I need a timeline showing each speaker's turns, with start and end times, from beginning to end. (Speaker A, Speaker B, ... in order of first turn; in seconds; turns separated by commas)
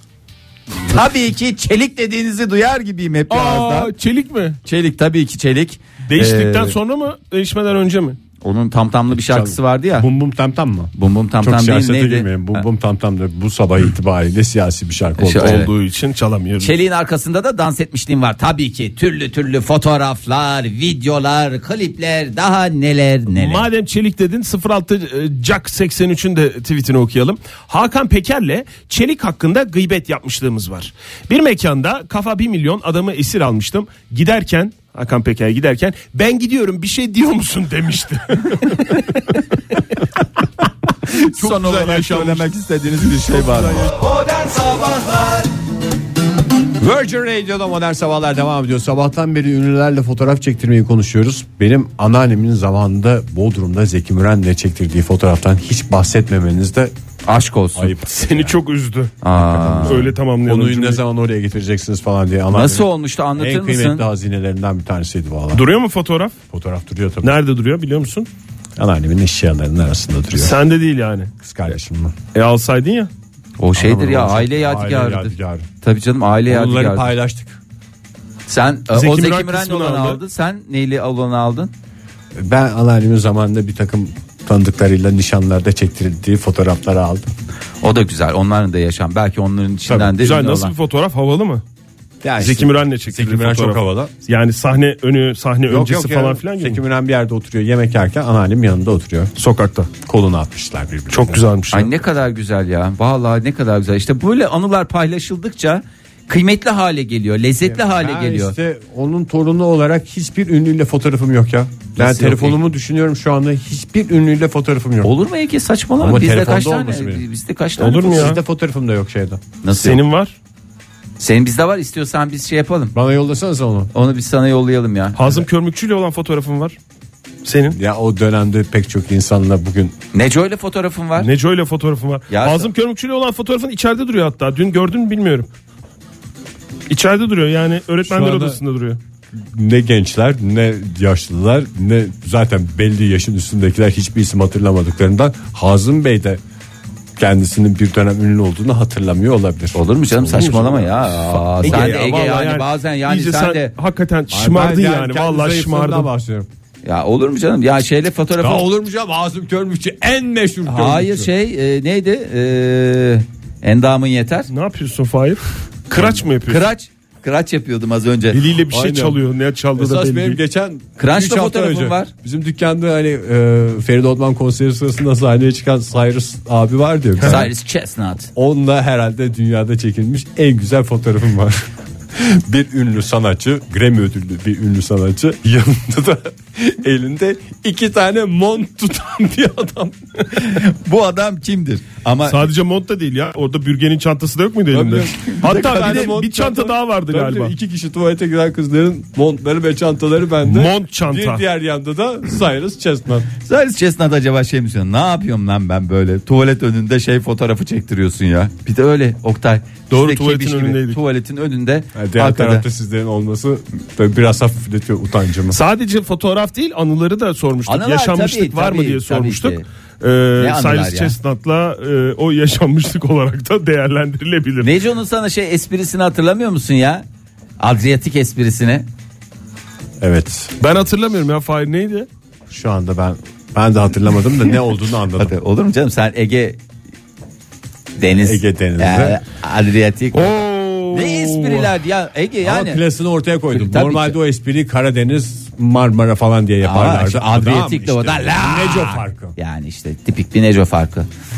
Speaker A: 0.9-3.9, Speaker B: 3.3-4.6, Speaker A: 4.6-6.7, Speaker B: 6.1-8.2, Speaker A: 8.4-10.1, Speaker C: 9.1-15.6, Speaker A: 10.9-12.6, Speaker A: 15.2-15.7, Speaker B: 15.4-16.7, Speaker A: 16.6-23.7, Speaker B: 23.3-39.1, Speaker A: 41.1-43.9, Speaker B: 41.4-42.4, Speaker C: 46.8-56.9, Speaker A: 57.2-57.9, Speaker C: 57.8-58.6, Speaker B: 58.1-59.1, Speaker A: 59.2-60.0, Speaker C: 59.3-65.7, Speaker B: 59.8-61.0, Speaker A: 62.5-64.1, Speaker B: 65.5-66.3, Speaker C: 66.5-67.3, Speaker B: 67.2-68.3, Speaker C: 68.8-70.6, Speaker B: 70.3-71.3, Speaker C: 71.4-72.2, Speaker B: 72.3-73.1, Speaker A: 73.6-77.1, Speaker C: 73.8-75.7, Speaker C: 76.5-77.6, Speaker A: 78.5-81.7, Speaker B: 78.9-80.2, Speaker C: 82.3-87.3, Speaker A: 87.8-90.7, Speaker C: 89.9-90.1, Speaker B: 90.2-91.6, Speaker C: 92.2-94.1, Speaker B: 92.4-96.8, Speaker C: 95.7-99.3, Speaker B: 99.3-99.9, Speaker C: 100.0-101.4, Speaker B: 101.1-101.9, Speaker A: 101.7-108.5, Speaker C: 107.6-115.1, Speaker A: 112.0-112.6, Speaker A: 115.0-118.3, Speaker C: 116.0-117.2, Speaker B: 117.8-118.4, Speaker C: 118.0-119.4, Speaker A: 119.6-120.0, Speaker B: 119.8-120.3, Speaker A: 121.2-122.9, Speaker C: 122.9-123.9, Speaker A: 123.9-125.2, Speaker B: 125.2-126.8, Speaker B: 127.4-127.8, Speaker C: 127.7-129.9, Speaker A: 130.1-131.3, Speaker B: 131.2-135.5, Speaker A: 132.3-132.7, Speaker B: 136.9-139.0, Speaker C: 138.0-138.6, Speaker C: 139.3-146.4, Speaker C: 147.2-152.0, Speaker A: 149.7-153.7, Speaker B: 150.4-156.1, Speaker C: 154.3-156.5, Speaker A: 156.8-158.7, Speaker C: 158.4-161.3, Speaker A: 160.7-164.5, Speaker B: 164.5-166.6, Speaker A: 165.9-168.4, Speaker B: 168.3-170.4, Speaker C: 168.7-169.2, Speaker C: 169.8-177.5, Speaker A: 171.0-172.1, Speaker A: 177.2-178.3, Speaker C: 178.3-190.0, Speaker A: 190.3-192.4, Speaker B: 192.2-197.5, Speaker C: 194.7-203.3, Speaker A: 195.5-196.1, Speaker B: 200.4-201.4, Speaker A: 203.4-212.7, Speaker B: 209.9-211.0, Speaker C: 211.9-215.6, Speaker B: 215.5-224.7, Speaker A: 217.7-219.6, Speaker A: 220.4-221.1, Speaker A: 224.6-227.0, Speaker A: 227.6-228.9, Speaker C: 230.0-230.5, Speaker B: 230.6-232.1, Speaker C: 232.5-235.3, Speaker A: 235.2-236.6, Speaker A: 238.0-242.8, Speaker C: 238.2-239.2, Speaker B: 240.1-241.7, Speaker C: 242.4-249.3, Speaker A: 243.5-244.2, Speaker A: 246.6-251.1